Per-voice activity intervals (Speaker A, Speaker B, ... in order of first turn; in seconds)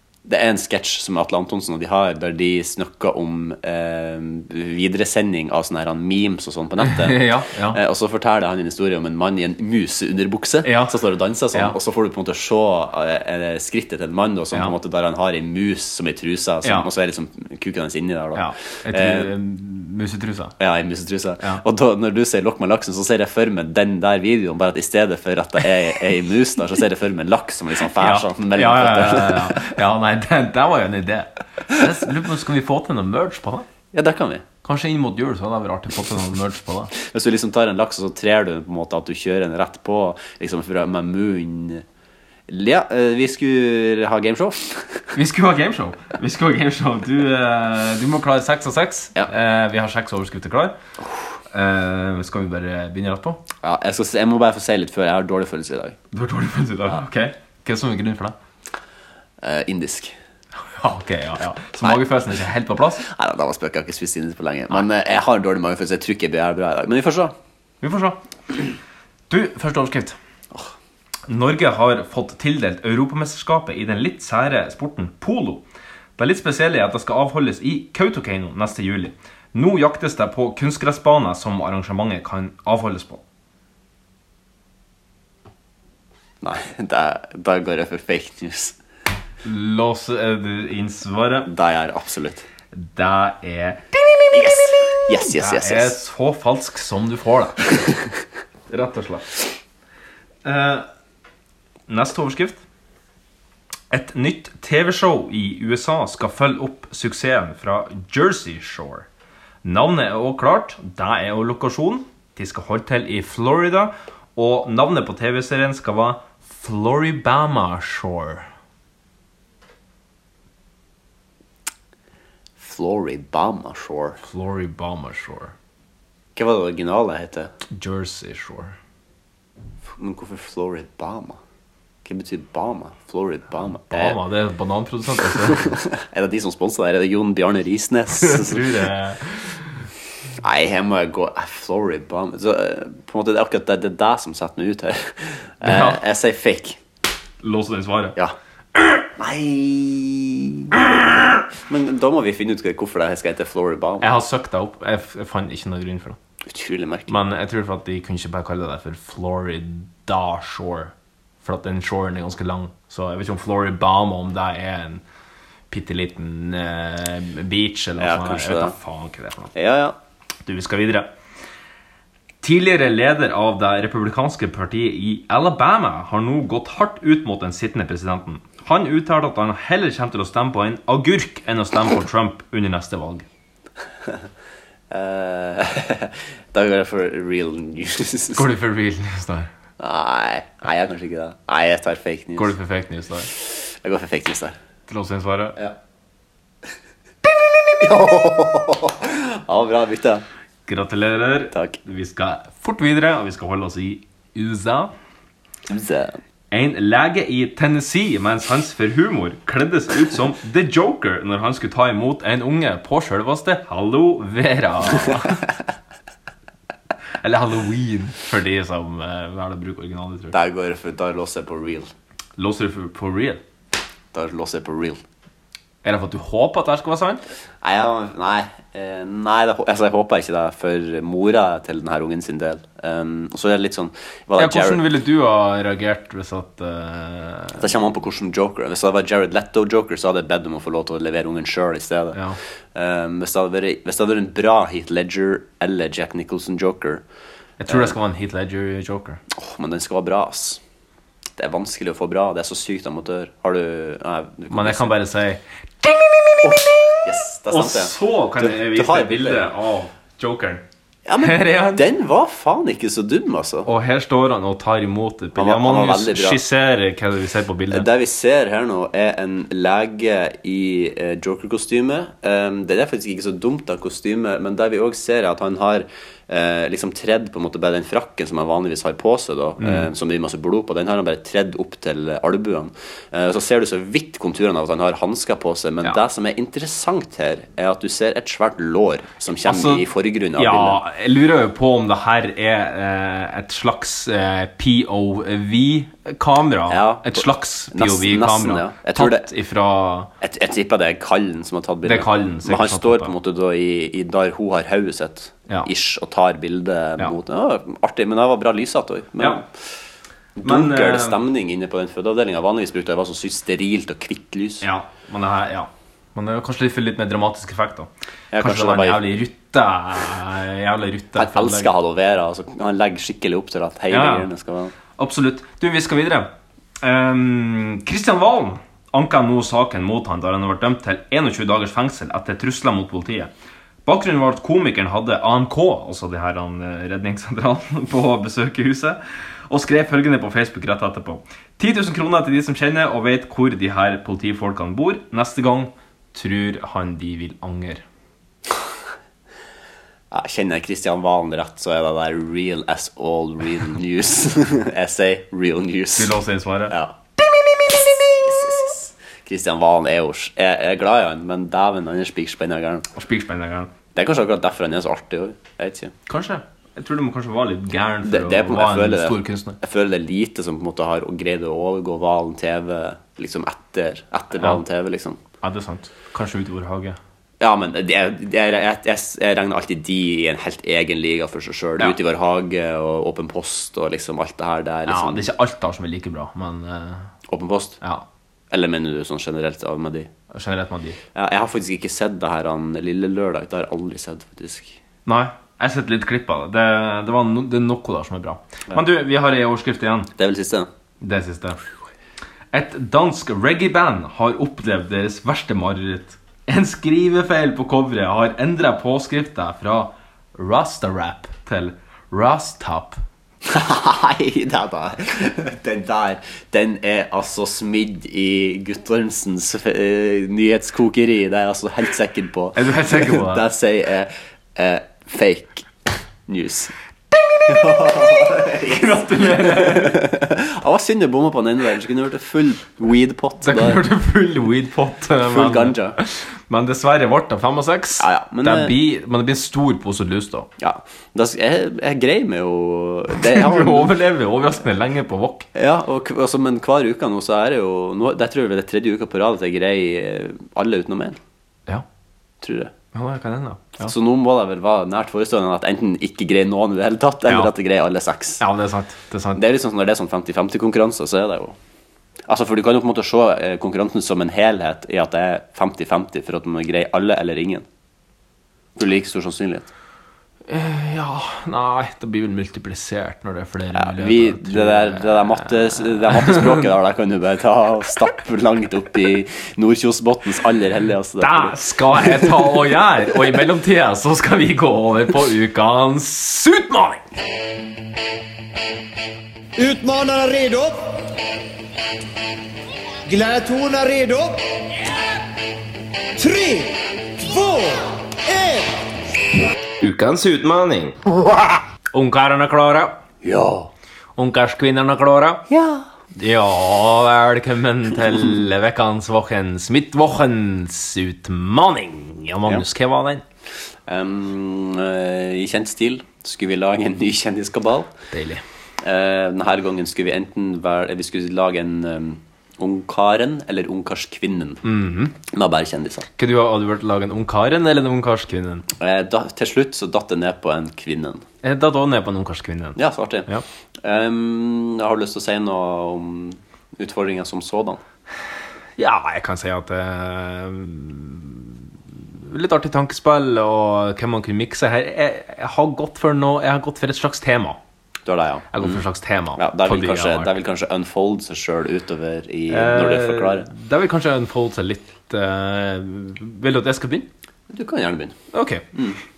Speaker A: 0.2-19.3, 20.6-29.7, 33.9-34.4, 37.0-41.8, 42.5-45.0, 53.6-56.0, 59.4-60.1, 63.0-67.3, 86.4-88.8, 91.5-92.4, 94.3-96.0, 122.6-124.2, 126.3-127.5, 130.0-131.4, 132.0-134.2, 135.5-138.7, 140.4-146.8, 149.2-150.8, 151.6-154.1, 156.5-157.1, 168.0-168.7, 169.5-169.9, 184.9-188.4, 189.8-192.5, 193.3-194.6, 197.8-200.2, 205.7-206.2, 220.3-221.9, 224.1-225.0, 227.6-234.8, 237.6-242.2, 242.7-247.0, 247.7-247.9, 249.3-250.6, 251.4-254.9, 256.4-259.5, 261.1-263.7, 265.4-266.4, 267.7-290.8, 296.7-299.3, 300.2-309.4, 310.4-314.7, 318.3-319.0, 321.1-324.7, 350.1-356.1, 356.7-356.9, 357.7-362.9, 363.9-365.9, 368.0-375.2, 377.4-385.2, 387.3-387.8, 388.5-390.1, 391.1-394.8, 400.1-400.7, 413.4-425.7, 426.3-426.7, 427.5-433.8, 435.2-436.0, 438.0-438.7, 440.6-443.9, 445.5-451.2, 452.4-452.7, 453.8-458.4, 459.4-461.6, 462.3-467.6, 468.8-469.7, 473.7-482.3, 503.2-503.7, 505.5-505.8, 513.9-517.9, 518.8-524.6, 525.2-526.0, 528.8-531.2, 532.8-533.3, 533.8-537.8, 548.0-548.8, 549.4-553.5, 557.5-558.1
Speaker B: 6.8-7.8, 10.6-11.0, 16.6-16.9, 18.3-20.5, 27.9-33.7, 34.6-36.9, 45.1-50.8, 51.5-53.4, 56.1-58.3, 60.6-63.0, 67.8-68.7, 69.3-70.2, 71.3-75.6, 76.2-83.2, 89.4-91.5, 92.7-93.8, 95.2-97.7, 98.7-99.3, 100.4-100.8, 101.9-102.6, 103.9-109.1, 109.6-118.5, 124.2-125.5, 127.7-128.8, 133.9-135.8, 138.1-139.8, 145.6-146.0, 147.4-148.2, 148.8-149.0, 154.0-156.2, 157.1-160.9, 161.4-165.0, 165.7-169.5, 170.4-171.1, 172.4-183.2, 188.3-189.5, 192.4-193.3, 194.9-195.6, 200.7-204.9, 206.5-215.4, 217.2-220.3, 222.4-223.4, 225.8-227.2, 234.3-237.7, 242.1-242.4, 247.6-249.2, 254.5-256.3, 257.5-260.6, 261.2-261.8, 263.6-267.9, 279.6-279.9, 289.4-300.1, 301.8-303.1, 309.2-309.4, 310.4-311.2, 314.6-321.7, 323.9-324.3, 324.9-333.3, 333.8-347.8, 355.9-356.7, 362.9-363.7, 366.1-369.6, 375.4-377.0, 384.9-387.1, 387.8-388.1, 390.3-391.0, 395.1-400.1, 401.0-401.6, 402.5-413.0, 422.6-423.4, 428.6-430.1, 433.4-440.5, 443.2-445.5, 452.9-453.9, 457.3-457.5, 458.4-459.4, 470.5-476.6, 481.2-487.1, 499.8-501.0, 501.9-503.0, 504.2-505.4, 506.1-513.2, 518.1-518.4, 524.6-525.1, 526.2-528.6, 531.4-533.4, 538.8-547.6, 548.5-550.4, 552.5-557.1, 558.3-558.7
Speaker C: 489.6-491.1, 493.1-494.4, 496.1-498.7